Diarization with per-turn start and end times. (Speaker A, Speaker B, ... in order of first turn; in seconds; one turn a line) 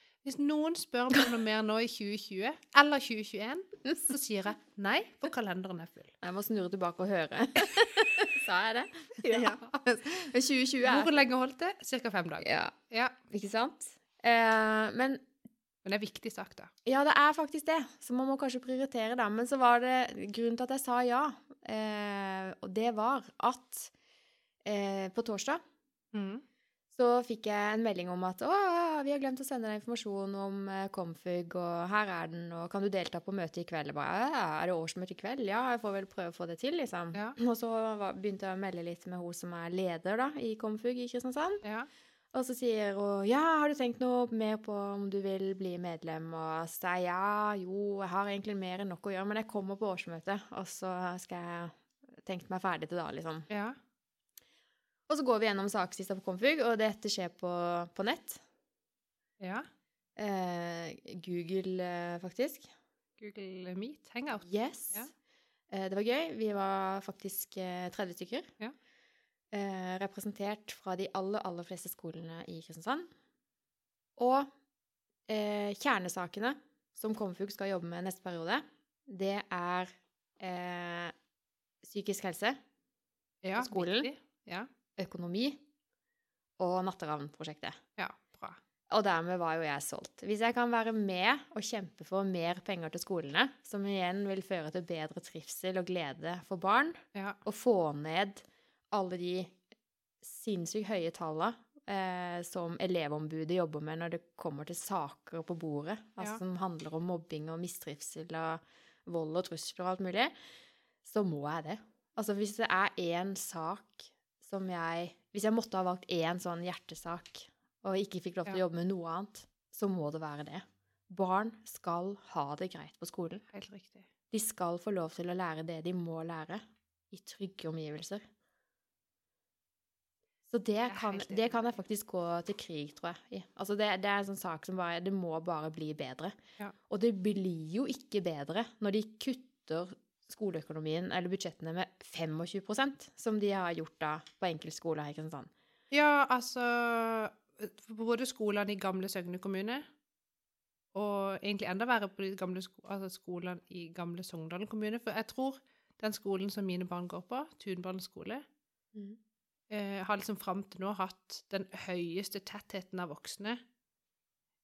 Speaker A: 0.2-6.1
Speaker B: 6.2-11.2
Speaker A: 9.2-10.2
Speaker A: 10.8-13.2
Speaker B: 12.4-12.7
Speaker B: 13.3-15.2
Speaker A: 15.8-16.7
Speaker B: 16.9-23.9
Speaker B: 24.6-25.6
Speaker A: 26.1-26.4
Speaker B: 26.9-41.6
Speaker A: 41.6-41.9
Speaker B: 42.3-53.5
Speaker A: 53.5-53.8
Speaker B: 55.1-58.4
Speaker A: 59.4-59.7
Speaker B: 60.1-62.7
Speaker A: 63.2-65.1
Speaker B: 64.4-65.1
Speaker B: 65.7-68.5
Speaker B: 69.5-73.1
Speaker B: 74.2-74.5
Speaker B: 75.3-81.1
Speaker B: 81.8-82.6
Speaker A: 83.4-84.7
Speaker B: 83.5-84.1
Speaker B: 85.0-85.6
Speaker B: 86.6-87.8
Speaker A: 88.0-88.6
Speaker B: 88.9-99.6
Speaker A: 97.1-97.4
Speaker B: 100.2-110.3
Speaker B: 111.0-123.4
Speaker A: 123.5-124.1
Speaker B: 124.3-128.2
Speaker B: 130.5-136.4
Speaker A: 130.9-131.7
Speaker B: 136.9-145.5
Speaker A: 145.9-149.8
Speaker A: 150.9-158.4
Speaker A: 159.7-163.6